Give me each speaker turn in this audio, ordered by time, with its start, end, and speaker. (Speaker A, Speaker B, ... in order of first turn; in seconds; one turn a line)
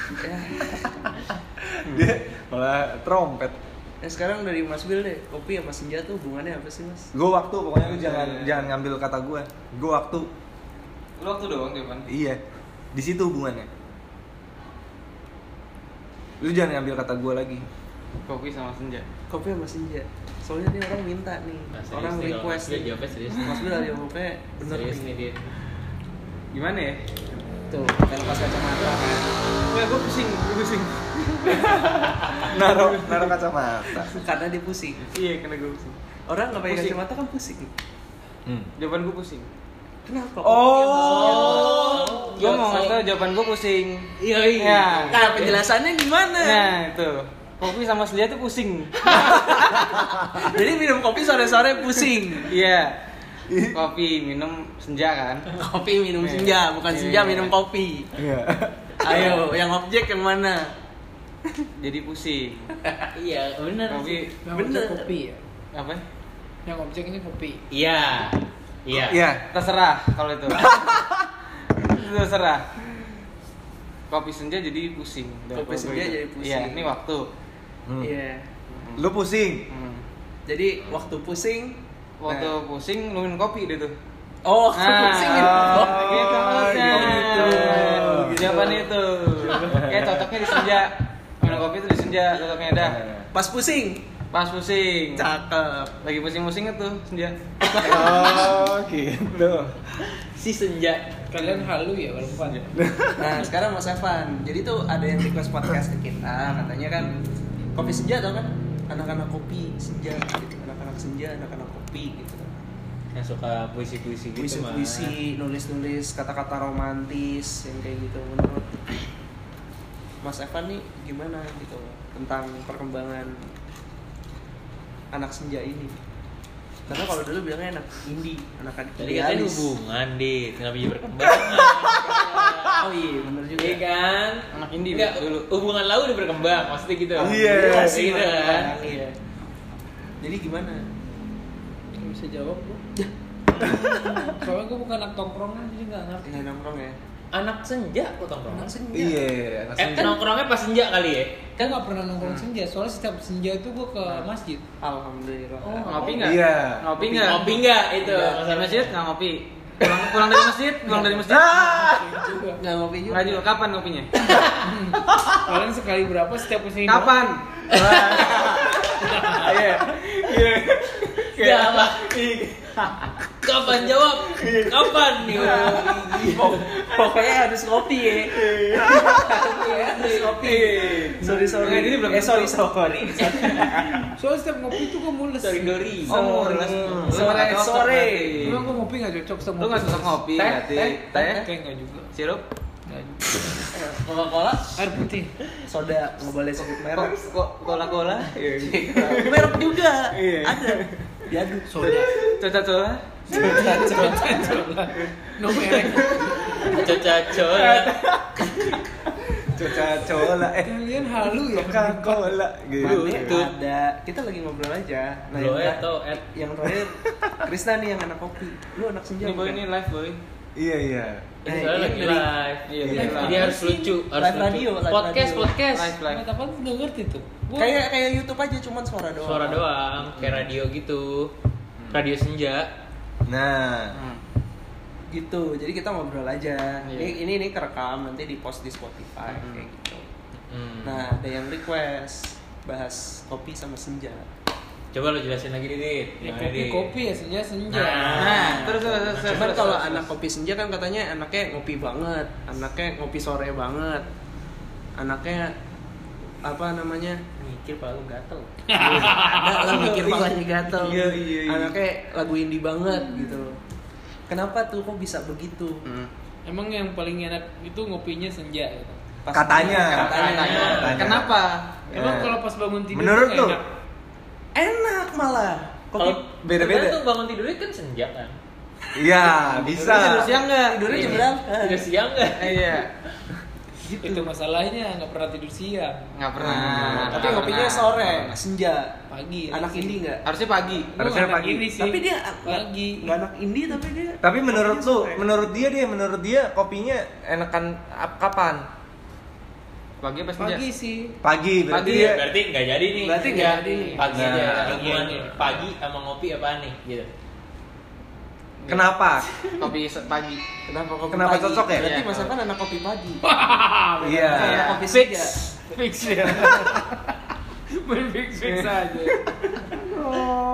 Speaker A: 0.2-0.9
Speaker B: 1.6-3.6
Speaker A: 4.0-7.1
Speaker B: 7.1-10.3
Speaker C: 7.8-8.7
Speaker C: 11.2-12.1
Speaker B: 12.1-12.4
Speaker B: 12.9-13.7
Speaker B: 16.4-17.7
Speaker C: 18.3-19.1
Speaker A: 19.3-25.3
Speaker D: 21.7-23.8
Speaker D: 24.6-25.4
Speaker C: 26.5-27.0
Speaker A: 27.7-29.2
Speaker C: 29.7-33.3
Speaker B: 32.4-34.1
Speaker A: 34.1-35.0
Speaker C: 35.0-36.0
Speaker A: 36.3-37.7
Speaker C: 36.6-37.0
Speaker C: 38.8-39.5
Speaker A: 40.1-42.4
Speaker B: 40.4-41.7
Speaker D: 40.9-43.0
Speaker C: 41.7-45.6
Speaker A: 44.4-46.7
Speaker D: 45.1-45.6
Speaker C: 46.4-49.3
Speaker A: 49.1-52.5
Speaker C: 52.5-53.0
Speaker B: 53.5-53.8
Speaker C: 53.7-55.5
Speaker A: 55.5-58.1
Speaker C: 56.2-57.5
Speaker B: 58.2-59.3
Speaker A: 59.0-60.7
Speaker C: 61.8-62.7
Speaker D: 63.1-64.3
Speaker C: 63.9-64.3
Speaker E: 64.4-65.4
Speaker A: 64.5-65.1
Speaker C: 65.7-66.0
Speaker E: 66.7-67.6
Speaker D: 67.7-69.3
Speaker B: 68.9-69.4
Speaker C: 69.5-70.7
Speaker B: 70.5-71.3
Speaker C: 71.8-72.7
Speaker C: 74.1-77.3
Speaker A: 75.5-76.9
Speaker A: 78.0-78.5
Speaker C: 78.7-79.1
Speaker B: 79.0-79.7
Speaker C: 79.7-80.0
Speaker A: 80.5-81.8
Speaker C: 82.2-83.9
Speaker B: 82.3-82.5
Speaker A: 84.5-88.9
Speaker C: 84.7-93.0
Speaker B: 85.5-88.5
Speaker B: 89.7-90.3
Speaker B: 92.8-93.3
Speaker A: 93.3-94.0
Speaker C: 94.3-95.3
Speaker A: 95.2-96.0
Speaker C: 96.0-98.3
Speaker B: 97.8-99.8
Speaker D: 100.2-101.2
Speaker E: 101.3-102.7
Speaker B: 102.8-103.5
Speaker A: 103.2-107.2
Speaker A: 107.8-112.6
Speaker D: 113.2-115.2
Speaker A: 114.4-118.8
Speaker A: 120.2-123.5
Speaker A: 125.1-126.0
Speaker A: 126.9-129.7
Speaker D: 129.0-132.8
Speaker B: 131.3-132.7
Speaker A: 132.8-133.8
Speaker D: 133.6-138.8
Speaker C: 134.5-135.5
Speaker A: 137.2-139.2
Speaker B: 137.2-138.1
Speaker A: 140.2-140.8
Speaker E: 142.0-142.6
Speaker B: 143.5-144.3
Speaker E: 144.3-146.4
Speaker A: 146.2-147.0
Speaker D: 147.3-148.8
Speaker A: 148.5-149.3
Speaker B: 148.9-150.2
Speaker D: 149.8-151.5
Speaker E: 151.6-154.6
Speaker A: 154.8-156.2
Speaker E: 155.6-156.4
Speaker C: 155.8-157.5
Speaker B: 156.2-156.9
Speaker D: 157.0-159.0
Speaker A: 157.1-157.4
Speaker A: 158.0-158.4
Speaker C: 158.2-161.6
Speaker E: 160.8-162.6
Speaker B: 161.3-162.3
Speaker A: 162.6-163.5
Speaker C: 163.1-164.1
Speaker E: 164.3-168.4
Speaker C: 166.9-168.8
Speaker B: 167.7-168.6
Speaker D: 168.0-168.3
Speaker E: 169.0-169.7
Speaker C: 169.4-172.0
Speaker D: 171.3-176.6
Speaker A: 175.3-184.1
Speaker B: 178.4-179.2
Speaker E: 179.2-180.7
Speaker C: 180.3-182.7
Speaker E: 184.2-186.1
Speaker D: 185.4-186.2
Speaker C: 186.1-188.7
Speaker A: 186.1-188.5
Speaker B: 186.6-187.5
Speaker E: 188.3-192.1
Speaker C: 189.6-191.5
Speaker D: 190.4-190.7
Speaker C: 192.1-192.4
Speaker E: 192.9-193.4
Speaker A: 193.8-194.6
Speaker E: 194.8-195.3
Speaker A: 195.6-197.2
Speaker C: 196.8-199.5
Speaker B: 198.4-199.5
Speaker A: 199.1-201.9
Speaker B: 200.1-200.8
Speaker E: 201.7-202.3
Speaker C: 201.8-204.2
Speaker E: 203.3-206.8
Speaker B: 203.3-203.9
Speaker D: 206.5-208.0
Speaker B: 207.5-208.8
Speaker B: 209.5-213.4
Speaker E: 210.6-212.4
Speaker A: 212.8-219.7
Speaker D: 212.8-213.5
Speaker D: 215.3-216.2
Speaker C: 219.2-220.2
Speaker B: 220.6-221.3
Speaker D: 221.4-225.9
Speaker A: 221.5-222.3
Speaker C: 222.7-223.6
Speaker B: 222.8-223.2
Speaker E: 222.9-223.6
Speaker A: 223.0-225.5
Speaker C: 225.7-226.3
Speaker E: 226.0-227.8
Speaker A: 227.6-229.6
Speaker D: 229.2-231.3
Speaker C: 230.2-230.4
Speaker D: 231.9-232.7
Speaker B: 233.3-234.0
Speaker C: 233.9-234.2
Speaker A: 235.1-240.1
Speaker C: 236.8-237.2
Speaker C: 239.4-239.7
Speaker D: 240.5-241.1
Speaker A: 240.8-244.3
Speaker D: 244.9-246.9
Speaker E: 246.2-248.5
Speaker D: 247.7-250.0
Speaker C: 248.1-250.1
Speaker A: 248.3-248.7
Speaker A: 249.3-254.1
Speaker A: 255.0-255.6
Speaker A: 256.4-257.2
Speaker D: 257.4-258.5
Speaker E: 258.7-260.1
Speaker A: 258.9-263.6
Speaker B: 259.8-261.8
Speaker A: 264.3-265.9
Speaker C: 265.9-266.1
Speaker E: 266.5-269.0
Speaker A: 269.2-270.9
Speaker B: 269.3-272.4
Speaker C: 269.6-271.9
Speaker D: 269.7-271.2
Speaker E: 271.9-273.6
Speaker B: 272.9-273.6
Speaker A: 274.6-276.2
Speaker D: 276.0-278.4
Speaker B: 276.4-277.0
Speaker B: 278.9-280.4
Speaker A: 279.5-281.9
Speaker C: 279.8-281.3
Speaker D: 280.9-282.9
Speaker C: 282.4-282.9
Speaker E: 283.8-286.1
Speaker C: 286.1-288.3
Speaker A: 286.4-289.0
Speaker B: 286.4-287.4
Speaker E: 287.2-287.5
Speaker E: 289.1-290.1
Speaker A: 289.5-290.2
Speaker C: 290.2-291.0
Speaker E: 290.8-293.1
Speaker B: 291.0-291.7
Speaker A: 291.8-295.4
Speaker B: 294.2-298.7
Speaker C: 300.0-300.6
Speaker E: 300.4-301.1
Speaker B: 301.2-302.3
Speaker C: 301.7-302.2
Speaker D: 301.8-307.1
Speaker A: 302.9-304.1
Speaker E: 303.2-305.6
Speaker B: 304.1-304.9
Speaker C: 308.6-310.5
Speaker B: 308.7-309.3
Speaker A: 310.6-313.2
Speaker B: 311.1-312.0
Speaker C: 311.7-312.5
Speaker E: 313.2-317.2
Speaker B: 314.0-314.7
Speaker A: 314.3-315.4
Speaker C: 314.3-314.9
Speaker E: 317.7-319.2
Speaker A: 319.9-320.2
Speaker B: 320.0-320.3